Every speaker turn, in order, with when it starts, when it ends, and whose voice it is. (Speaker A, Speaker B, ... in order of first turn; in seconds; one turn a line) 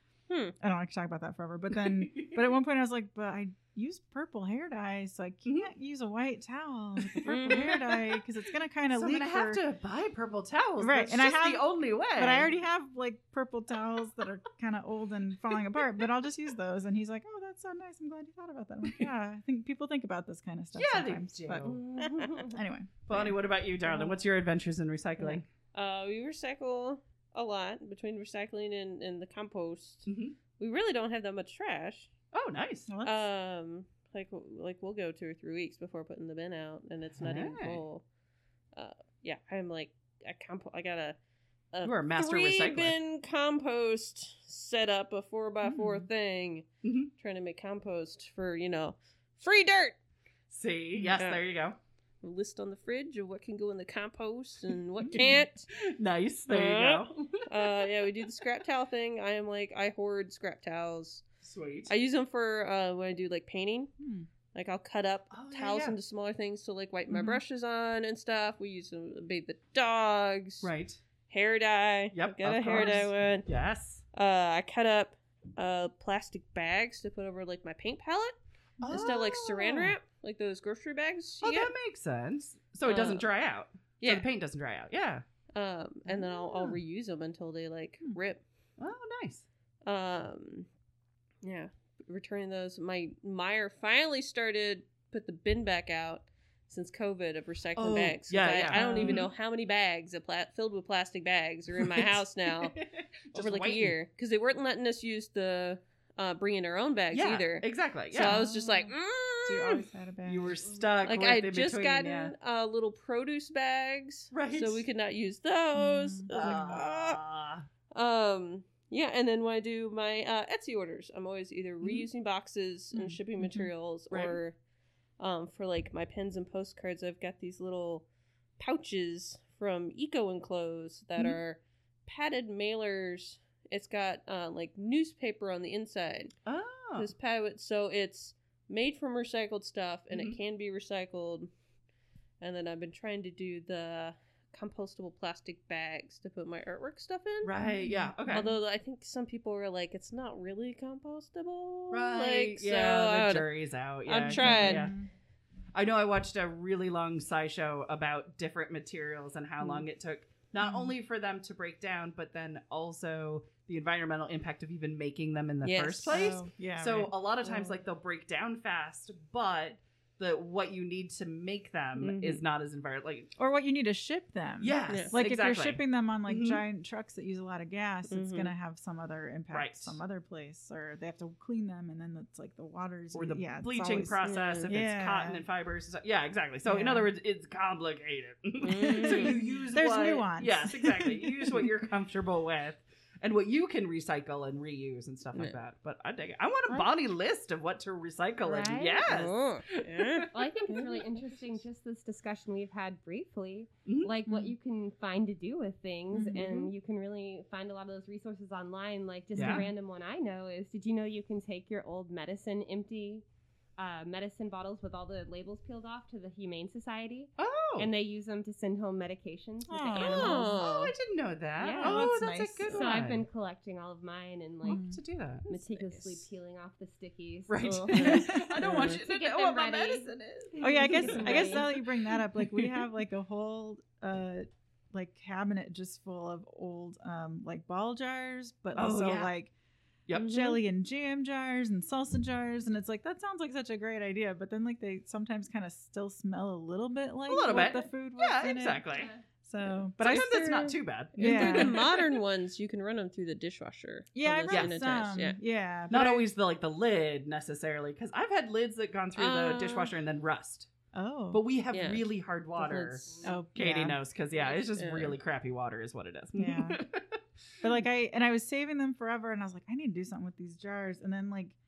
Speaker A: 0.3-0.5
Speaker B: 0.6-9.6
Speaker C: 1.8-2.4
Speaker C: 5.5-5.7
Speaker C: 7.0-8.2
Speaker A: 7.3-7.7
Speaker C: 8.9-12.5
Speaker B: 10.8-11.7
Speaker B: 12.2-23.4
Speaker C: 20.8-22.0
Speaker D: 21.7-22.5
Speaker C: 23.1-25.5
Speaker B: 23.9-24.1
Speaker A: 25.2-32.1
Speaker C: 30.1-30.4
Speaker C: 32.3-32.9
Speaker B: 32.9-33.2
Speaker A: 33.0-38.0
Speaker C: 37.2-37.8
Speaker A: 38.7-41.2
Speaker A: 41.7-46.7
Speaker C: 41.9-43.0
Speaker B: 45.6-46.1
Speaker C: 46.8-47.1
Speaker A: 47.2-50.0
Speaker C: 50.5-51.8
Speaker A: 51.1-51.4
Speaker A: 52.2-55.7
Speaker B: 55.1-55.4
Speaker C: 55.7-57.9
Speaker A: 56.5-61.2
Speaker C: 61.4-61.9
Speaker A: 61.9-63.9
Speaker B: 64.0-64.3
Speaker A: 64.5-70.7
Speaker C: 65.3-66.0
Speaker B: 67.1-67.4
Speaker C: 70.6-71.0
Speaker A: 71.3-73.5
Speaker C: 72.1-74.0
Speaker A: 74.1-81.7
Speaker C: 78.8-80.0
Speaker C: 81.4-85.2
Speaker A: 82.8-83.2
Speaker A: 84.0-84.3
Speaker A: 85.5-88.4
Speaker C: 86.3-86.7
Speaker C: 88.8-89.5
Speaker A: 89.9-90.7
Speaker A: 91.4-102.8
Speaker C: 97.8-99.3
Speaker B: 98.7-99.2
Speaker C: 101.8-104.0
Speaker A: 103.3-109.8
Speaker C: 107.1-108.4
Speaker B: 108.2-110.6
Speaker C: 110.3-112.3
Speaker A: 111.0-117.2
Speaker C: 114.3-114.8
Speaker B: 115.8-116.8
Speaker C: 116.3-117.7
Speaker A: 117.9-124.6
Speaker B: 122.9-123.7
Speaker C: 124.1-124.4
Speaker A: 125.2-128.1
Speaker A: 128.6-136.3
Speaker C: 136.5-137.1
Speaker A: 137.0-141.5
Speaker C: 140.1-140.4
Speaker A: 142.4-147.5
Speaker C: 147.4-148.5
Speaker B: 147.6-148.2
Speaker A: 148.3-153.5
Speaker C: 151.9-154.9
Speaker A: 154.1-154.9
Speaker B: 154.3-155.1
Speaker C: 155.7-173.3
Speaker B: 160.6-160.9
Speaker A: 165.6-166.3
Speaker B: 166.1-167.1
Speaker A: 172.0-172.4
Speaker B: 173.4-185.4
Speaker C: 174.6-176.6
Speaker A: 174.9-175.2
Speaker A: 178.1-178.5
Speaker C: 179.5-180.0
Speaker C: 183.1-201.1
Speaker A: 184.2-184.7
Speaker B: 186.7-187.1
Speaker A: 188.6-189.4
Speaker B: 188.8-191.7
Speaker D: 198.4-199.1
Speaker A: 199.1-200.9
Speaker D: 200.3-213.2
Speaker C: 203.9-204.1
Speaker B: 204.3-204.5
Speaker B: 206.2-206.4
Speaker A: 206.2-206.7
Speaker C: 209.3-209.7
Speaker B: 209.4-209.7
Speaker D: 213.8-220.6
Speaker C: 217.4-217.9
Speaker B: 219.7-220.4
Speaker A: 220.0-220.9
Speaker C: 220.2-223.2
Speaker D: 221.6-224.8
Speaker B: 221.8-222.8
Speaker C: 224.6-225.5
Speaker B: 224.7-225.0
Speaker D: 225.5-231.8
Speaker A: 225.5-226.2
Speaker C: 227.5-231.8
Speaker B: 227.9-228.9
Speaker A: 227.9-229.0
Speaker B: 230.6-239.5
Speaker C: 232.4-232.8
Speaker C: 238.8-239.3
Speaker C: 240.1-240.5
Speaker A: 240.1-240.6
Speaker B: 240.2-248.8
Speaker C: 247.3-249.1
Speaker D: 248.9-249.2
Speaker B: 249.4-250.6
Speaker C: 250.0-252.2
Speaker A: 250.0-255.4
Speaker B: 251.2-251.8
Speaker B: 254.2-256.3
Speaker C: 254.5-254.8
Speaker C: 255.9-260.7
Speaker A: 259.2-259.9
Speaker B: 260.9-261.4
Speaker C: 261.3-267.2
Speaker A: 261.7-262.1
Speaker A: 262.6-263.2
Speaker D: 263.1-263.4
Speaker B: 263.2-264.0
Speaker D: 264.4-264.6
Speaker A: 264.7-265.2
Speaker B: 266.4-266.8
Speaker B: 267.6-271.6